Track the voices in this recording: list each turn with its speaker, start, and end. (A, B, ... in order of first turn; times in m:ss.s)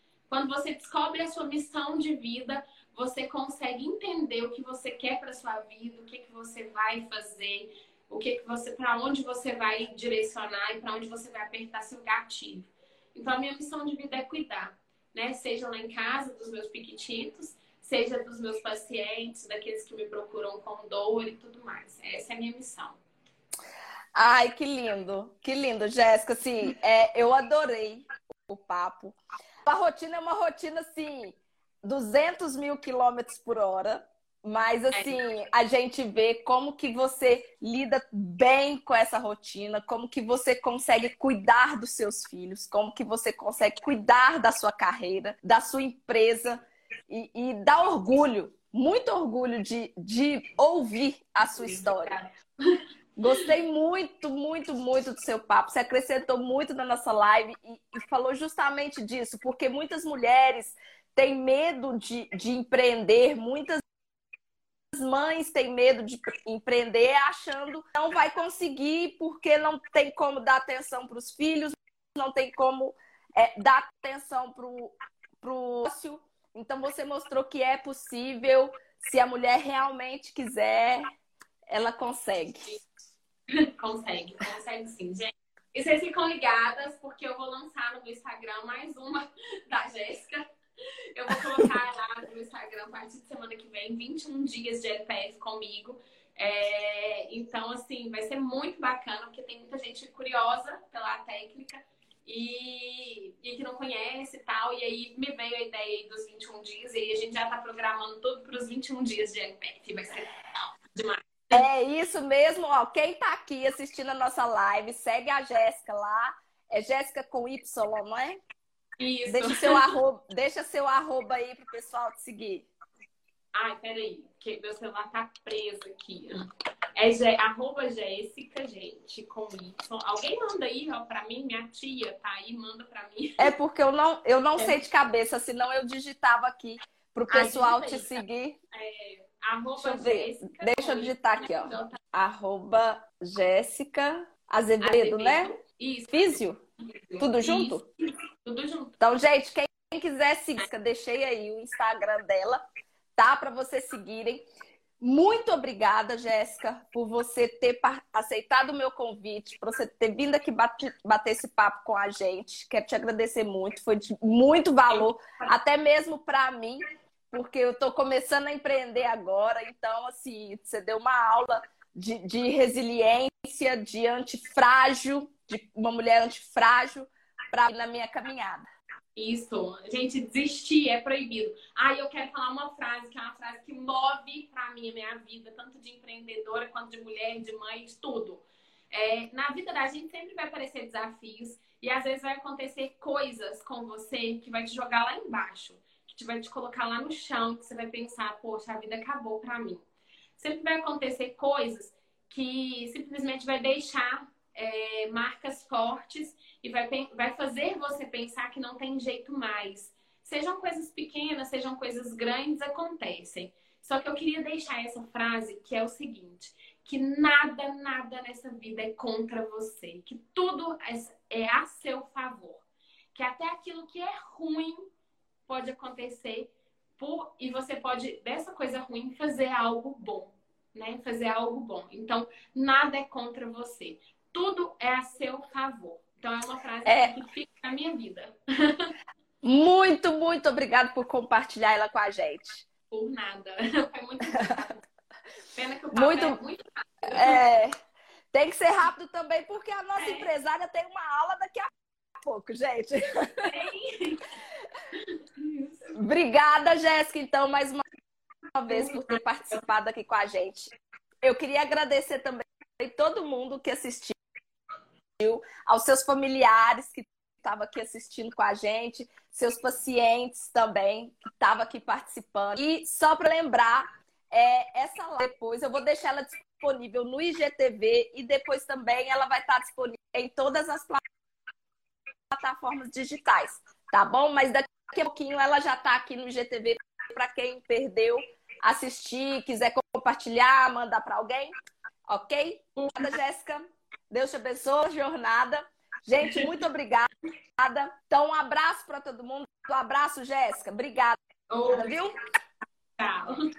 0:00.3-0:23.0 A
0:24.1-0:52.2 B
0:34.9-0:35.2 A
0:51.5-0:53.4 A
0:53.2-1:03.8 B
1:04.9-1:21.1 B
1:21.7-1:22.8 B
1:23.5-1:30.4 A
1:31.1-1:51.7 A
1:51.5-1:58.4 B
1:59.0-1:59.9 A
1:59.3-2:02.7 B
2:03.5-2:06.4 A
2:07.0-2:13.5 A
2:13.4-2:18.6 B
2:17.3-2:18.2 A
2:18.7-2:22.0 A
2:19.8-2:25.5 B
2:24.8-2:26.4 A
2:26.1-2:26.6 B
2:27.1-2:27.9 A
2:27.2-2:27.8 B
2:28.4-2:28.9 A
2:29.0-2:32.6 B
2:33.2-2:34.4 B
2:35.0-2:58.7 B
2:44.9-2:45.5 A
2:59.2-3:19.8 A
3:20.4-3:44.8 A
3:45.5-3:58.9 A
3:56.8-3:57.1 B
3:59.4-4:02.6 B
4:02.9-4:04.8 A
4:05.5-4:07.4 A
4:05.9-4:06.4 B
4:07.0-4:07.7 B
4:08.3-4:13.5 B
4:10.0-4:10.3 A
4:13.5-4:14.2 A
4:15.4-4:15.8 A
4:15.9-4:17.8 B
4:18.5-4:24.2 B
4:18.7-4:19.2 A
4:25.2-4:41.0 B
4:42.3-4:51.5 B
4:52.1-5:01.2 B
4:52.8-4:53.1 A
5:01.5-5:02.0 A
5:01.7-5:02.1 B
5:03.0-5:03.3 A